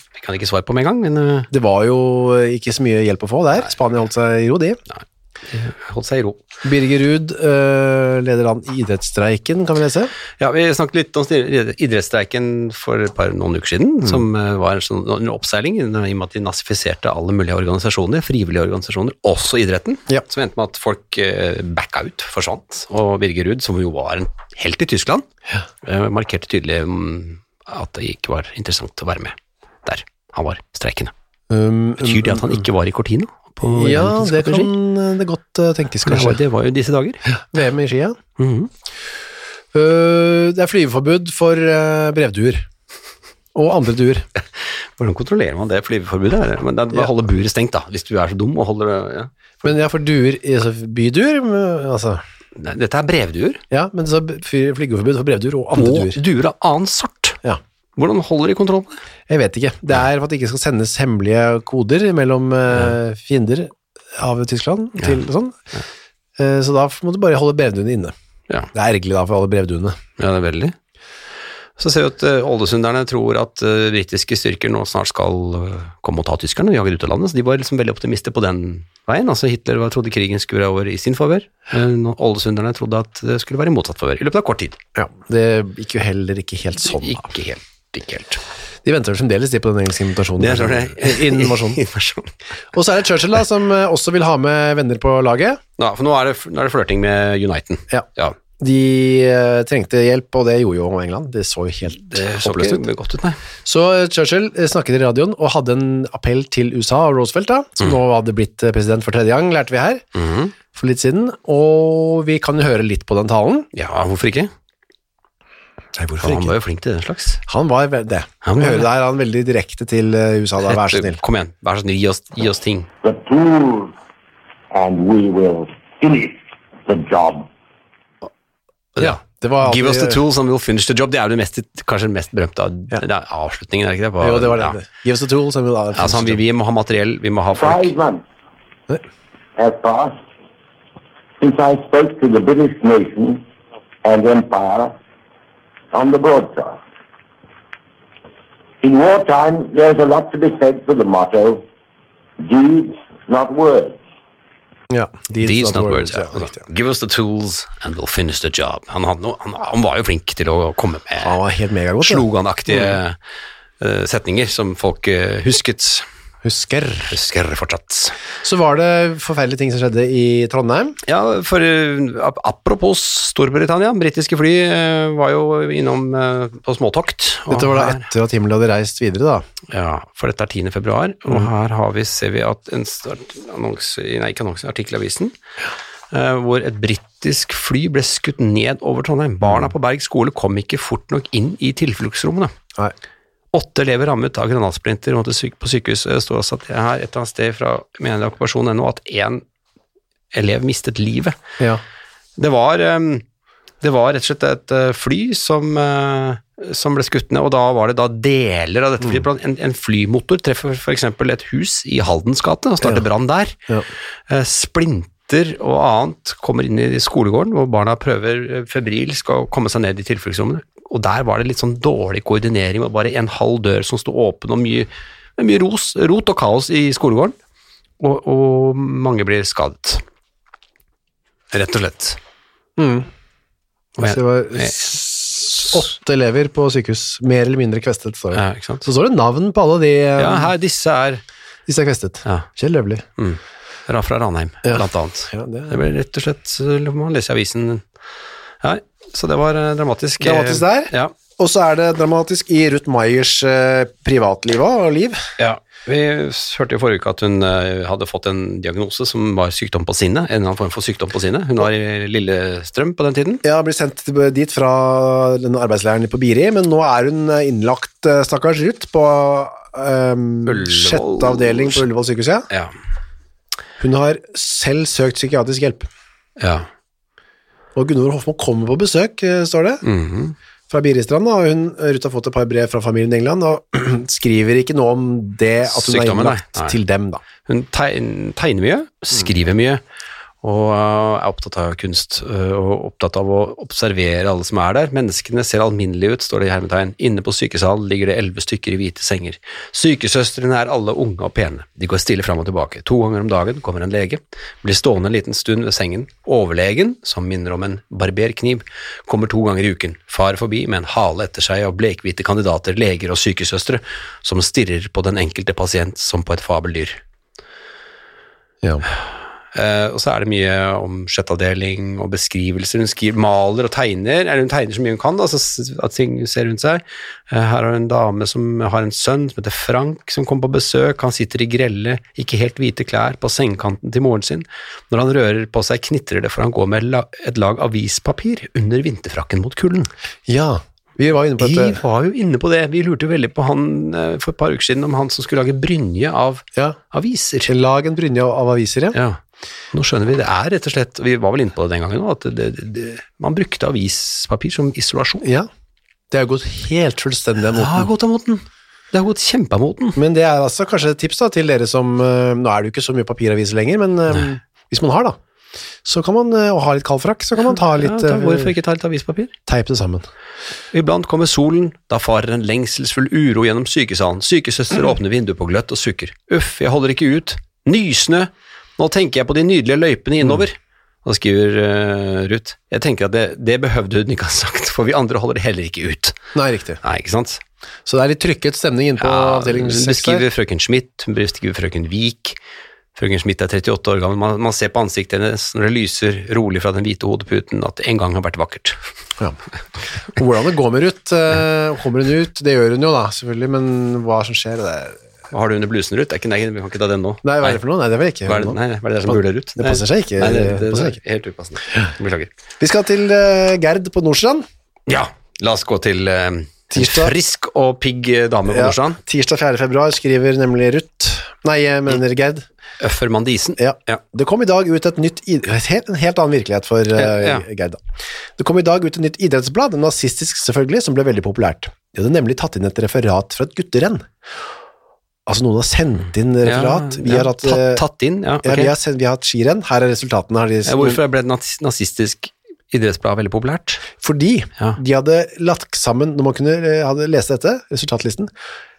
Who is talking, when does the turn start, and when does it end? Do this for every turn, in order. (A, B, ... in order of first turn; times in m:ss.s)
0:00.2-0:01.5 A
0:01.5-0:04.8 B
0:04.9-0:06.4 A
0:06.6-0:10.1 B
0:10.4-0:25.2 A
0:25.8-0:31.1 A
0:31.5-0:32.6 B
0:32.0-0:34.7 A
0:33.6-0:36.4 B
0:36.0-0:37.2 A
0:37.5-0:38.2 B
0:38.4-0:38.7 A
0:39.7-0:42.7 B
0:43.5-0:44.2 B
0:44.6-0:49.3 A
0:49.6-0:52.2 B
0:52.6-0:53.6 A
0:53.7-0:56.2 B
0:55.7-0:57.4 A
0:58.0-0:59.0 A
0:59.3-1:05.6 B
1:06.4-1:08.1 B
1:08.7-1:10.0 B
1:10.2-1:10.7 A
1:11.8-1:24.8 A
1:24.9-1:27.3 B
1:26.9-1:28.4 A
1:28.8-1:31.8 B
1:30.4-1:32.3 A
1:32.7-1:35.6 B
1:35.8-1:38.4 A
1:38.6-1:42.8 B
1:42.0-1:43.4 A
1:43.6-1:50.0 B
1:50.1-1:50.5 A
1:50.7-1:53.7 B
1:53.7-1:54.5 A
1:56.0-1:56.5 B
1:56.1-1:57.4 A
1:57.5-2:01.2 B
1:58.4-1:58.8 A
2:00.6-2:02.9 A
2:03.0-2:03.9 C
2:04.7-2:07.5 C
2:09.0-2:14.8 A
2:09.0-2:10.2 B
2:14.2-2:16.4 B
2:15.9-2:17.9 A
2:17.5-2:18.2 C
2:19.6-2:20.2 C
2:21.4-2:23.4 C
2:24.0-2:24.9 C
2:25.9-2:26.8 C
2:28.8-2:31.6 C
2:32.4-2:34.0 C
2:34.9-2:36.6 B
2:35.4-2:41.4 A
2:41.2-2:42.9 B
2:42.0-2:43.2 A
2:43.8-2:46.0 A
2:46.4-2:47.2 B
2:47.1-2:48.2 A
2:48.4-2:51.0 B
2:51.0-2:58.1 A
2:57.5-2:59.4 B
2:59.7-3:05.3 A
3:06.1-3:12.5 A
3:13.5-3:19.4 A
3:20.3-3:21.4 A
3:22.4-3:23.2 A
3:23.8-3:33.6 A
3:34.3-3:47.3 A
3:48.0-3:50.0 A
3:51.5-3:52.2 A
3:52.8-3:53.1 B
3:54.0-3:54.9 A
3:54.0-4:00.5 B
3:58.3-3:58.8 A
4:00.2-4:01.2 A
4:01.7-4:03.0 B
4:03.2-4:07.8 A
4:04.6-4:05.8 B
4:08.6-4:11.1 A
4:10.2-4:15.2 B
4:15.4-4:23.4 A
4:23.4-4:32.5 B
4:30.4-4:31.8 A
4:33.8-4:35.9 B
4:36.4-4:36.7 A
4:37.7-4:39.8 B
4:39.8-4:40.4 A
4:40.7-4:47.2 B
4:45.7-4:46.8 A
4:47.4-4:49.8 A
4:50.4-5:17.0 A
5:19.5-5:39.9 A
5:40.3-5:41.8 B
5:41.4-5:47.5 A
5:47.5-5:49.0 B
5:48.9-5:49.2 A
5:49.7-5:55.2 A
5:55.2-5:55.5 B
5:56.1-5:57.9 B
5:57.5-6:00.0 A
6:00.0-6:05.2 B
6:05.8-6:08.5 B
6:07.7-6:09.3 A
6:09.5-6:10.0 B
6:10.7-6:26.2 A
6:26.3-6:26.8 B
6:26.8-6:27.4 A
6:27.8-6:30.2 B
6:29.0-6:32.4 A
6:32.9-6:38.8 A
6:40.0-6:45.0 B
6:45.3-6:47.6 A
6:47.2-6:51.0 B
6:48.2-6:52.3 A
6:52.6-6:54.4 B
6:54.9-6:59.0 A
6:56.7-6:57.1 B
6:58.5-7:02.4 B
7:02.8-7:04.0 A
7:03.6-7:07.8 B
7:06.9-7:07.4 A
7:08.4-7:14.1 B
7:15.2-7:17.8 B
7:16.4-7:18.7 A
7:18.4-7:21.0 B
7:20.6-7:23.8 A
7:24.0-7:28.3 B